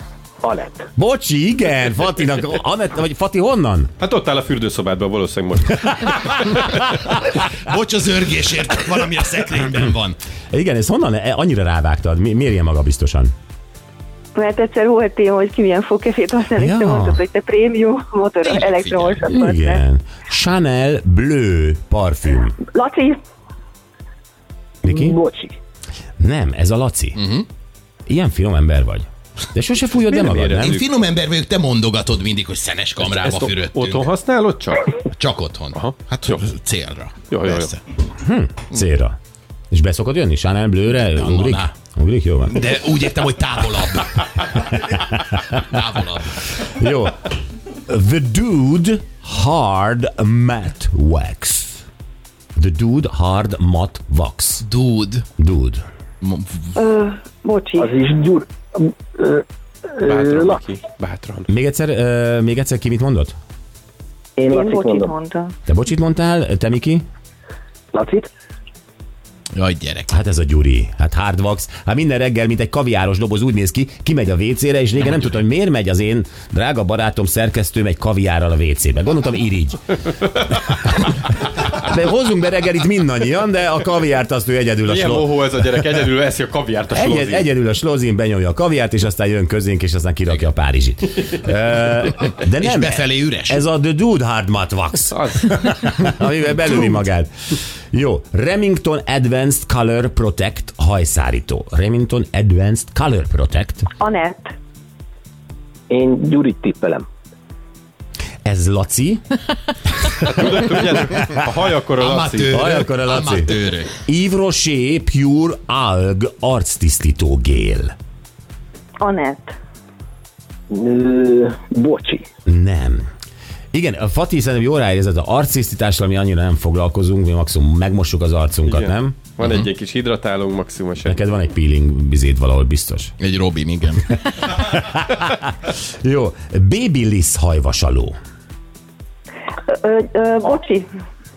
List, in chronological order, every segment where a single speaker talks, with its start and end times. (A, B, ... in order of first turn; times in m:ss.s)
0:00.4-0:00.9 A
0:01.0-0:03.9 B
0:04.0-0:06.1 C
0:07.6-0:10.2 D
0:10.5-0:13.3 B
0:14.4-0:19.8 E
0:16.6-0:17.2 B
0:18.4-0:19.3 D
0:19.3-0:22.6 B
0:22.7-0:23.2 E
0:24.8-0:25.2 B
0:24.9-0:25.6 A
0:26.2-0:27.2 B
0:27.2-0:27.5 D
0:28.1-0:30.8 B
0:30.0-0:30.9 C
0:30.6-0:34.1 D
0:33.0-0:34.9 C
0:35.1-0:37.8 D
0:35.7-0:36.5 C
0:37.3-0:37.8 C
0:38.2-0:39.2 B
0:39.7-0:42.6 B
0:41.2-0:41.7 D
0:42.5-0:46.6 D
0:44.8-0:45.6 B
0:46.6-0:51.8 B
0:52.6-0:54.7 B
0:54.6-0:55.3 D
0:55.4-0:55.8 B
0:56.2-0:56.8 D
0:56.8-0:57.9 E
0:57.8-1:00.6 A
1:00.1-1:01.5 C
1:01.5-1:03.3 B
1:04.4-1:05.2 A
1:04.5-1:05.6 E
1:05.7-1:07.0 B
1:07.9-1:08.3 A
1:09.5-1:10.1 D
1:10.1-1:19.9 B
1:21.5-1:25.3 B
1:24.9-1:27.5 C
1:27.0-1:43.9 B
1:32.5-1:33.6 D
1:35.1-1:35.5 C
1:44.0-1:44.5 E
1:45.9-1:47.0 A
1:48.4-1:49.2 B
1:50.2-1:52.7 C
1:50.8-1:51.3 B
1:52.0-1:53.9 D
1:52.5-1:53.5 B
1:54.1-1:57.9 B
1:59.0-1:59.5 E
2:00.7-2:02.2 A
2:02.5-2:03.1 B
2:03.7-2:09.2 B
2:08.7-2:11.2 C
2:09.4-2:09.7 D
2:11.0-2:13.1 B
2:13.2-2:14.2 D
2:14.6-2:18.2 B
2:19.7-2:20.9 E